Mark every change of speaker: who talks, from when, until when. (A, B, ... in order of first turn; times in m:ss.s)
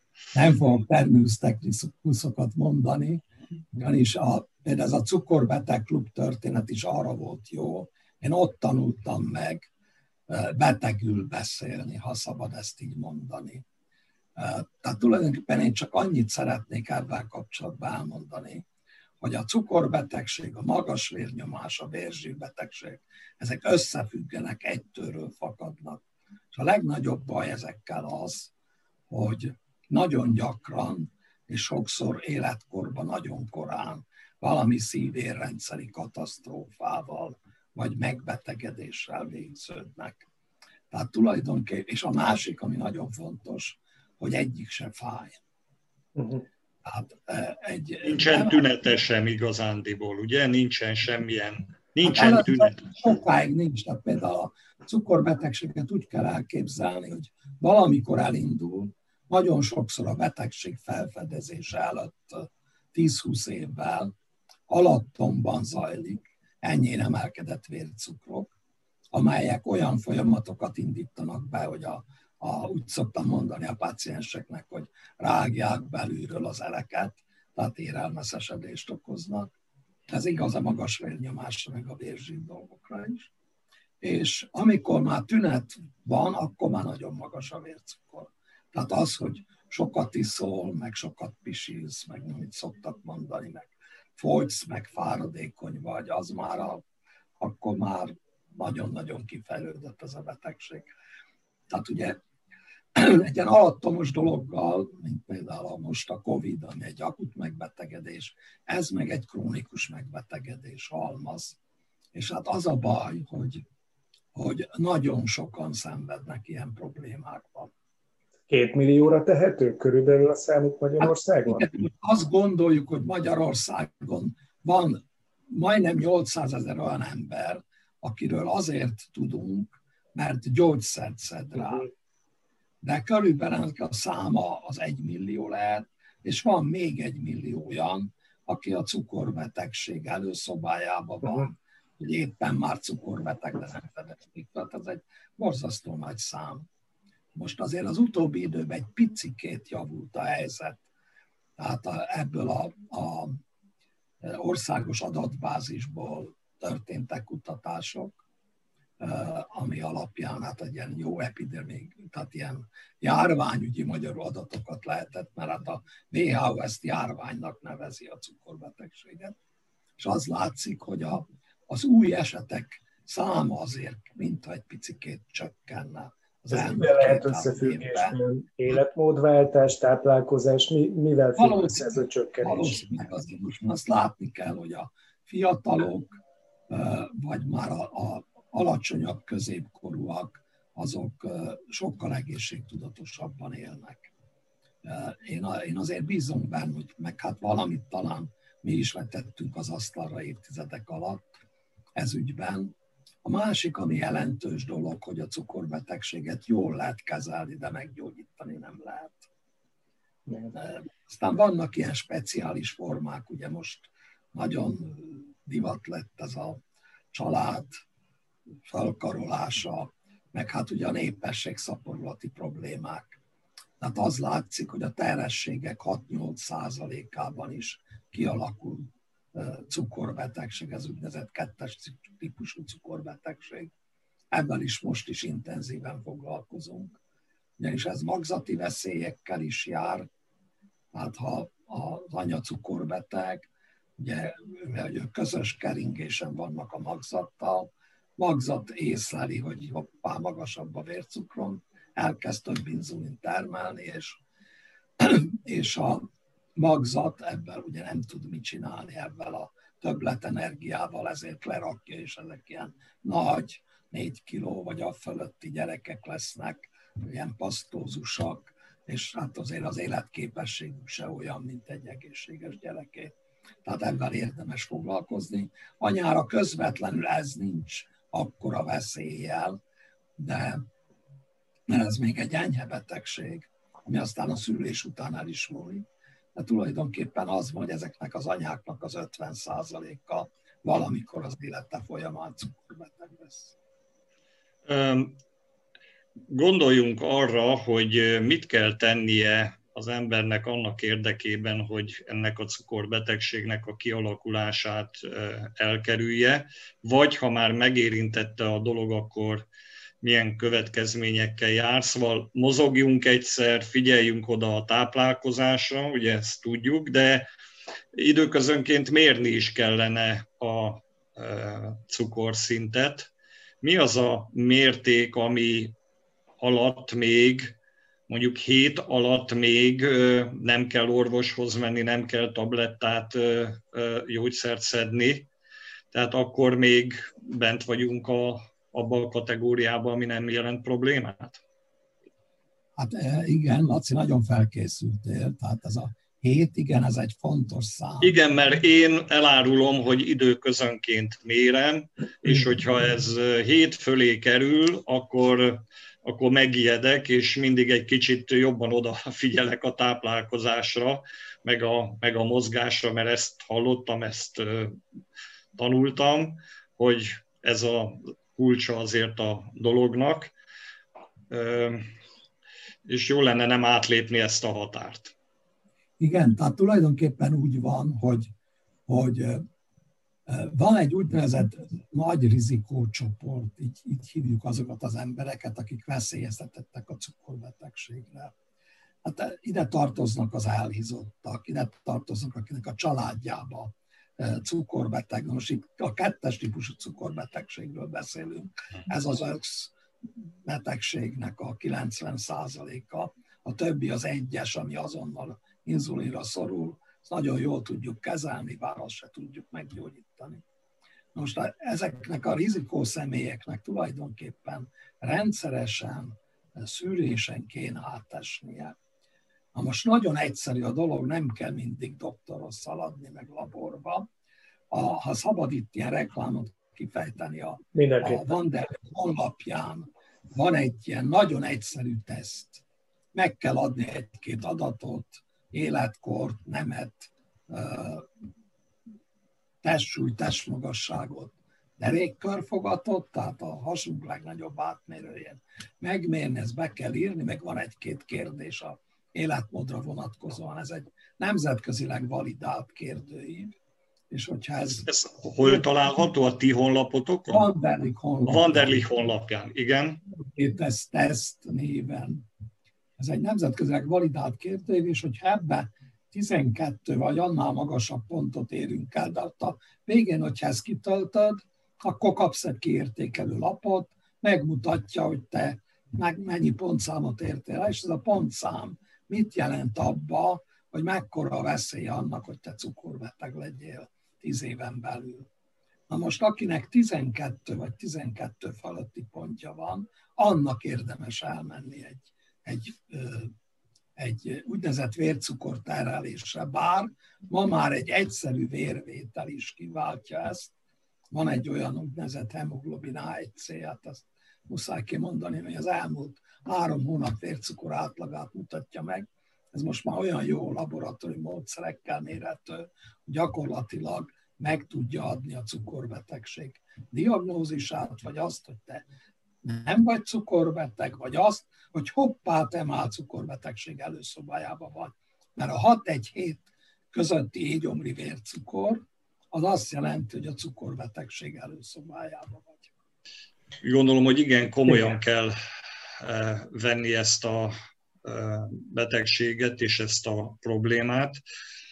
0:00.3-0:03.2 A
0:03.7-0:09.7 A
0:10.3-0:13.6 A
0:14.4-0:18.6 A
0:19.2-0:28.5 A
0:29.1-0:40.2 A
0:40.9-0:45.4 A
0:46.2-0:46.4 B
0:46.8-0:48.7 A
0:48.0-0:53.0 C
0:52.0-1:04.1 A
1:04.7-1:08.5 A
1:09.1-1:19.5 A
1:20.1-1:23.3 A
1:24.0-1:36.8 A
1:37.4-1:40.9 A
1:41.7-1:42.2 A
1:42.9-1:51.6 A
1:52.1-1:53.6 A
1:54.3-1:57.7 A
1:58.5-2:01.6 B
2:01.0-2:11.9 A
2:12.8-2:26.6 A
2:27.4-2:30.8 A
2:31.6-2:33.4 A
2:34.2-2:38.2 A
2:39.0-2:49.4 A
2:50.0-2:58.2 A
2:56.5-3:02.8 B
3:01.4-3:14.1 A
3:14.8-3:21.3 A
3:22.0-3:22.7 A
3:23.2-3:29.3 A
3:30.5-3:36.6 A
3:37.1-3:37.8 A
3:38.6-3:43.2 A
3:43.8-3:53.7 A
3:54.3-3:57.0 A
3:57.6-4:00.1 A
4:00.9-4:14.2 A
4:15.0-4:33.1 A
4:33.6-4:39.6 A
4:40.2-4:40.6 A
4:41.7-4:53.5 A
4:54.6-4:55.2 C
4:56.3-5:09.5 C
5:10.0-5:17.3 C
5:17.9-5:23.1 C
5:23.6-5:25.7 C
5:26.4-5:27.6 C
5:28.1-5:35.3 C
5:35.9-5:41.4 C
5:42.8-5:48.1 A
5:48.0-6:04.8 C
6:05.6-6:10.3 C
6:11.3-6:11.9 C
6:12.9-6:15.1 C
6:16.0-6:18.3 A
6:18.9-6:19.4 A
6:20.3-6:28.3 A
6:29.0-6:50.4 A
6:51.1-6:58.7 A
6:59.5-7:04.0 A
7:04.7-7:12.6 A
7:07.8-7:08.2 B
7:13.1-7:18.1 A
7:19.6-7:33.6 A
7:34.1-7:34.9 A
7:34.8-7:37.5 C
7:37.3-7:38.8 A
7:38.2-7:40.0 C
7:40.2-7:42.2 A
7:43.0-8:05.3 A
8:05.9-8:13.3 A
8:14.0-8:20.5 A
8:21.1-8:38.8 A
8:39.4-8:52.7 A
8:53.6-8:55.4 C
8:56.0-9:01.2 C